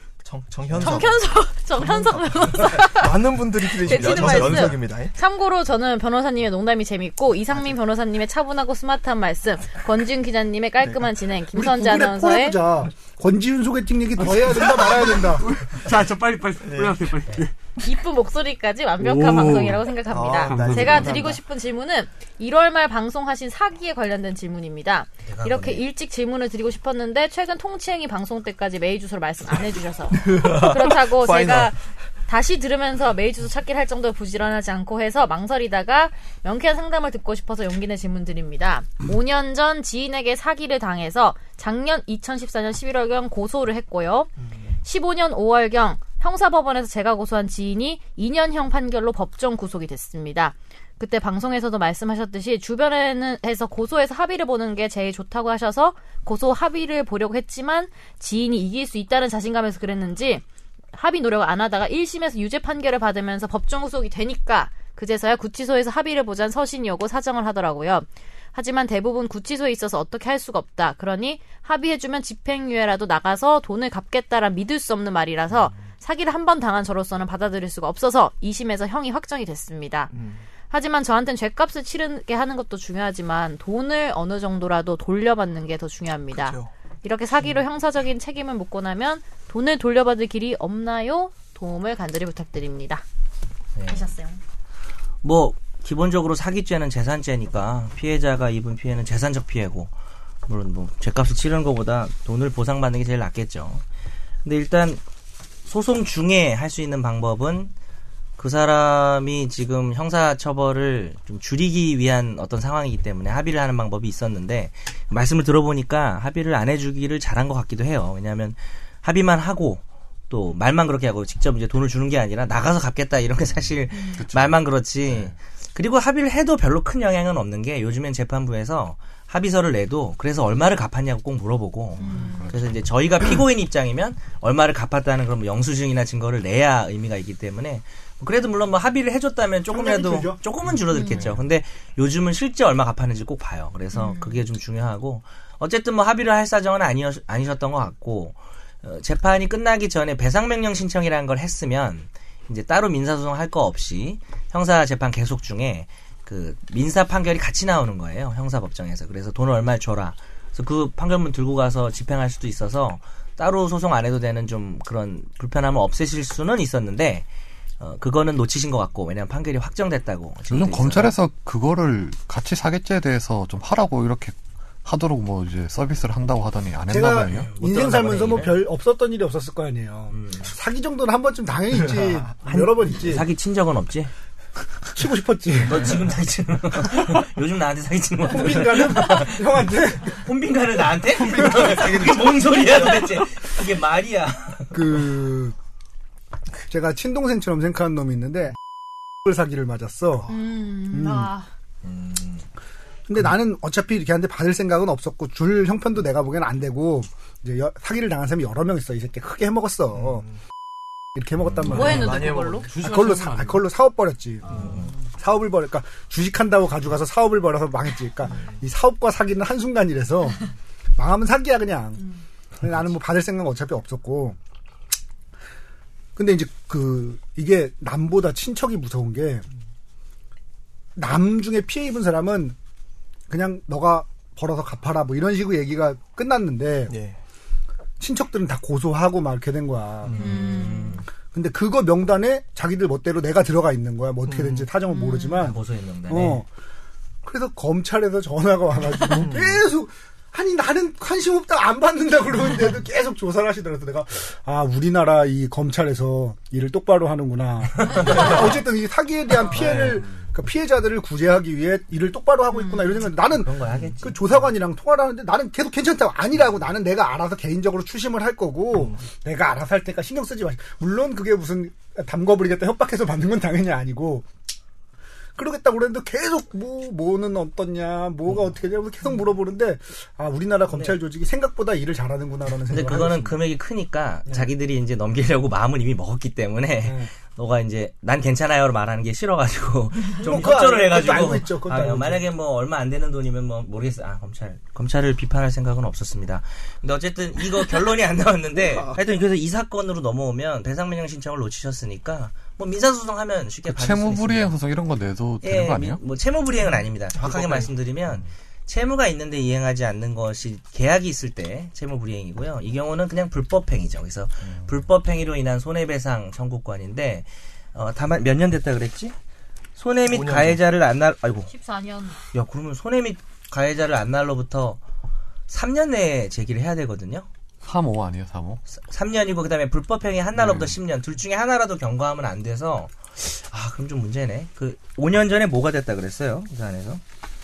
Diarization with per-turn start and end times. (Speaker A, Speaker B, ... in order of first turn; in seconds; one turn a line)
Speaker A: 0.2-1.2
Speaker B: 0.7-1.0
Speaker C: 0.8-12.6
Speaker A: 2.7-5.1
Speaker B: 3.9-4.7
Speaker A: 10.8-11.1
Speaker D: 11.5-15.4
Speaker B: 14.2-17.5
Speaker A: 16.6-17.1
Speaker C: 17.8-44.3
Speaker B: 19.0-19.9
Speaker A: 20.1-21.4
Speaker B: 20.4-21.3
Speaker E: 25.2-25.8
Speaker A: 30.1-31.7
Speaker C: 44.8-80.1
Speaker A: 80.1-80.4
Speaker C: 80.7-93.0
Speaker A: 86.3-86.7
Speaker E: 93.8-94.1
Speaker C: 93.9-94.4
Speaker E: 95.2-99.9
Speaker E: 100.5-103.8
Speaker E: 104.4-105.0
Speaker E: 105.7-107.7
Speaker E: 108.4-167.2
Speaker C: 123.9-124.2
Speaker B: 124.2-125.3
Speaker C: 132.0-132.5
Speaker B: 132.0-132.6
Speaker D: 139.7-140.4
Speaker B: 140.7-141.4
Speaker C: 140.9-141.2
Speaker C: 143.9-144.4
Speaker E: 167.8-171.1
Speaker B: 170.5-177.5
Speaker D: 176.9-183.3
Speaker E: 177.3-178.6
Speaker E: 180.1-180.5
Speaker E: 182.5-184.1
Speaker D: 184.9-186.0
Speaker E: 185.7-189.4
Speaker D: 188.3-190.3
Speaker E: 190.1-194.8
Speaker A: 191.2-192.4
Speaker D: 191.3-191.9
Speaker D: 194.7-195.5
Speaker D: 196.7-198.6
Speaker D: 199.2-200.3
Speaker C: 200.3-201.5
Speaker D: 200.9-201.3
Speaker E: 201.8-202.4
Speaker D: 203.1-210.2
Speaker D: 211.1-220.4
Speaker A: 211.6-212.7
Speaker B: 211.7-213.7
Speaker C: 211.7-212.7
Speaker C: 214.4-214.8
Speaker E: 214.6-214.9
Speaker D: 221.0-222.0
Speaker D: 222.6-224.4
Speaker D: 226.2-229.4
Speaker D: 230.9-232.6
Speaker D: 233.3-236.9
Speaker A: 236.9-237.2
Speaker D: 238.0-240.4
Speaker A: 240.0-240.3
Speaker E: 240.2-241.0
Speaker C: 240.2-241.0
Speaker D: 241.3-246.5
Speaker A: 244.2-244.7
Speaker C: 244.9-245.4
Speaker E: 245.3-246.4
Speaker D: 247.2-274.2
Speaker A: 249.1-249.6
Speaker B: 259.6-260.2
Speaker C: 262.5-263.1
Speaker E: 263.2-264.3
Speaker D: 275.4-283.4
Speaker E: 280.7-281.0
Speaker E: 282.7-304.5
Speaker D: 286.8-287.1
Speaker D: 290.2-292.3
Speaker B: 303.7-306.0
Speaker E: 305.4-319.1
Speaker A: 307.2-307.6
Speaker E: 319.8-321.5
Speaker A: 320.1-320.6
Speaker C: 321.5-322.2
Speaker E: 322.3-324.8
Speaker E: 325.5-327.3
Speaker B: 327.6-328.6
Speaker E: 328.7-337.0
Speaker B: 330.3-330.8